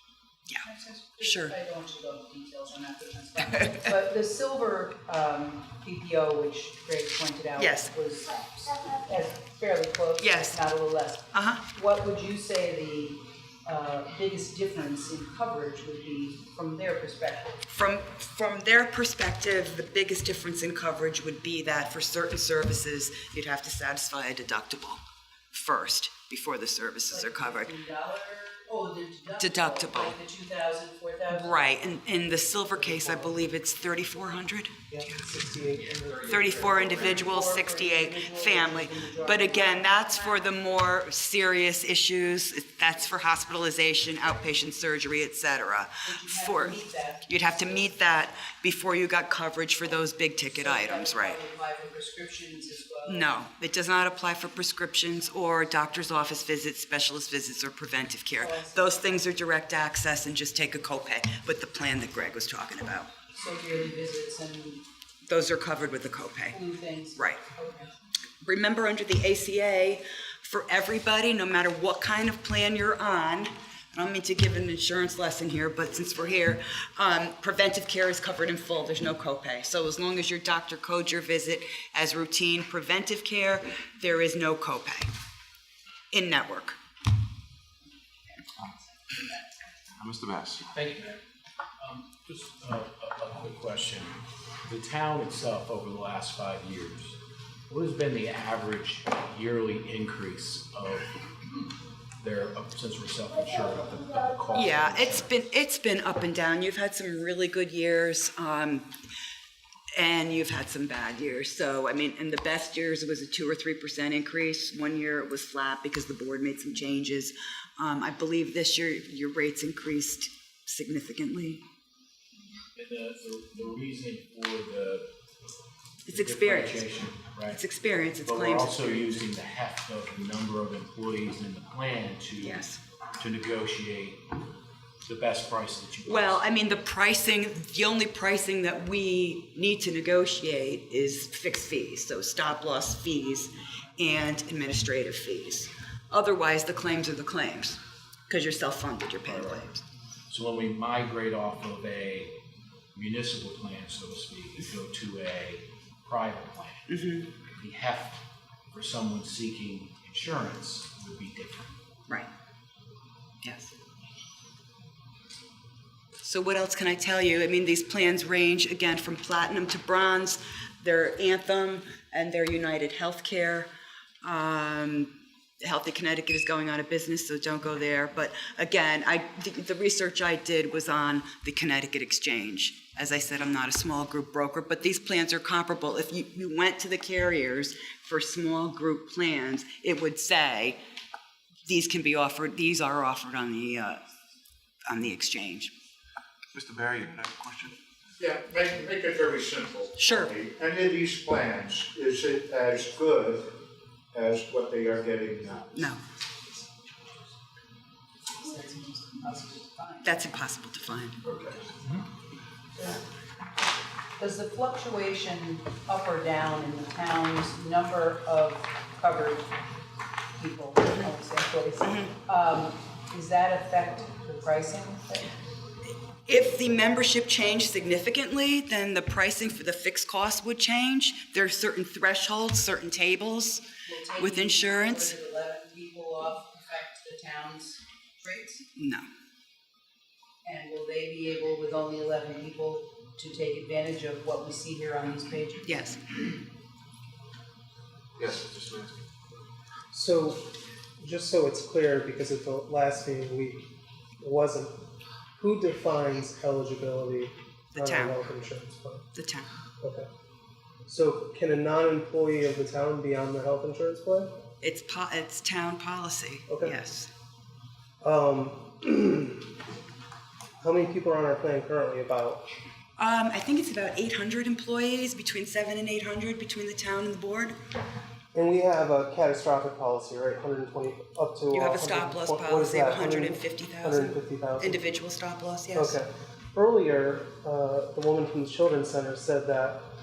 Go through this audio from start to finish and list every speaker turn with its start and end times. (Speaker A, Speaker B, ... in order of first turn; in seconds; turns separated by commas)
Speaker A: 0.7-17.6, Speaker B: 1.2-1.6, Speaker B: 3.4-3.9, Speaker B: 7.6-7.9, Speaker B: 10.2-10.6, Speaker B: 11.3-11.7, Speaker B: 17.7-25.0, Speaker B: 25.5-27.8, Speaker A: 27.1-31.6, Speaker B: 29.3-30.2, Speaker B: 31.3-35.3, Speaker C: 32.9-33.3, Speaker C: 34.9-37.6, Speaker D: 35.7-37.3, Speaker B: 36.2-51.4, Speaker A: 37.3-40.3, Speaker A: 46.0-47.9, Speaker A: 50.5-53.3, Speaker B: 53.1-63.1, Speaker A: 58.4-59.0, Speaker A: 63.3-64.8, Speaker B: 65.3-66.6, Speaker A: 66.5-67.9, Speaker B: 67.2-67.5, Speaker B: 68.4-85.1, Speaker B: 86.1-86.8, Speaker E: 90.0-90.5, Speaker D: 90.7-91.2, Speaker D: 91.8-97.2, Speaker D: 97.7-101.1, Speaker D: 102.2-105.3, Speaker B: 104.5-108.9, Speaker B: 110.0-121.6, Speaker D: 122.8-125.1, Speaker B: 126.1-126.9, Speaker D: 126.1-127.6, Speaker B: 127.5-129.2, Speaker D: 128.2-132.6, Speaker B: 132.4-132.8, Speaker D: 133.2-134.2, Speaker D: 135.0-136.4, Speaker B: 136.1-149.8, Speaker D: 149.3-149.6, Speaker D: 150.3-152.3, Speaker D: 152.9-156.9, Speaker B: 156.9-157.3, Speaker D: 157.5-161.8, Speaker B: 163.4-163.7, Speaker B: 166.2-173.7, Speaker B: 174.2-175.1, Speaker B: 175.6-190.8, Speaker B: 191.7-194.0, Speaker B: 194.9-195.7, Speaker E: 196.6-197.7, Speaker F: 198.2-203.5, Speaker B: 200.0-200.3, Speaker F: 204.1-205.9, Speaker B: 205.7-206.0, Speaker A: 208.4-210.2, Speaker B: 210.1-211.2, Speaker F: 211.2-211.6, Speaker A: 212.8-213.0, Speaker A: 214.2-219.6, Speaker A: 220.4-225.3, Speaker B: 221.8-222.2, Speaker B: 226.3-235.2, Speaker A: 233.8-238.6, Speaker B: 238.8-239.1, Speaker A: 240.4-245.7, Speaker B: 245.7-246.0, Speaker E: 248.2-248.8, Speaker C: 249.9-250.4, Speaker C: 251.0-253.7, Speaker C: 254.2-254.7, Speaker C: 255.4-259.1, Speaker B: 257.7-258.3, Speaker B: 259.1-259.5, Speaker C: 260.9-264.3, Speaker B: 264.6-267.1, Speaker C: 266.5-266.8, Speaker C: 268.0-269.4, Speaker C: 270.6-272.4, Speaker B: 273.0-277.6, Speaker C: 278.3-284.8, Speaker B: 281.5-286.0, Speaker C: 285.7-289.8